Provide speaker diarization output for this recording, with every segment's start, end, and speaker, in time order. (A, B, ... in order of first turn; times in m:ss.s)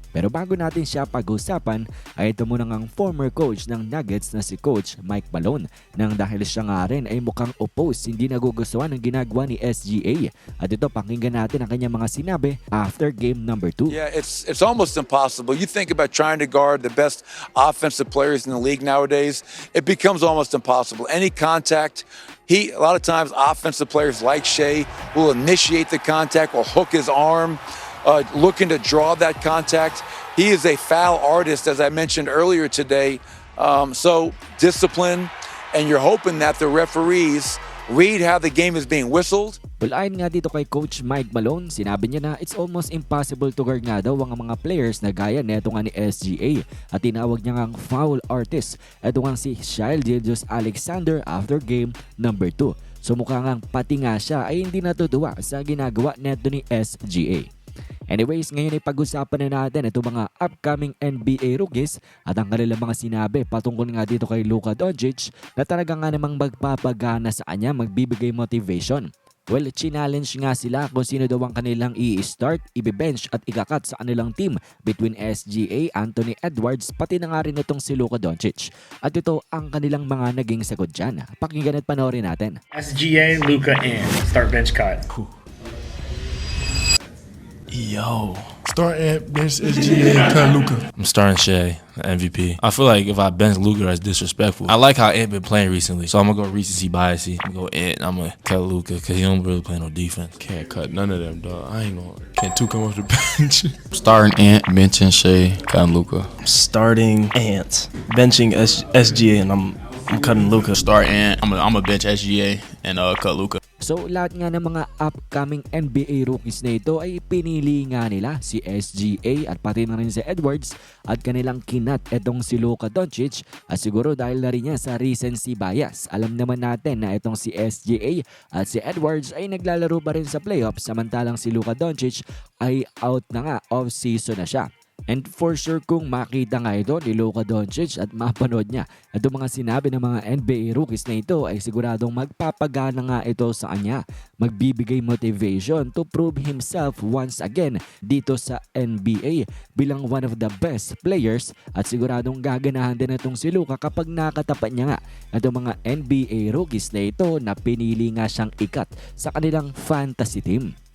0:00.1-0:14.0 A
0:13.9-0:39.6 B
0:39.8-0:57.4 A
0:58.1-1:22.6 A
1:22.7-1:25.0 C
1:27.7-1:28.5 D
1:28.7-1:30.8 E
1:29.7-1:30.1 D
1:31.0-1:40.4 F
1:40.4-1:43.8 E
1:43.9-1:46.3 G
1:46.4-1:50.8 D
1:50.7-1:53.6 G
1:53.8-2:40.7 A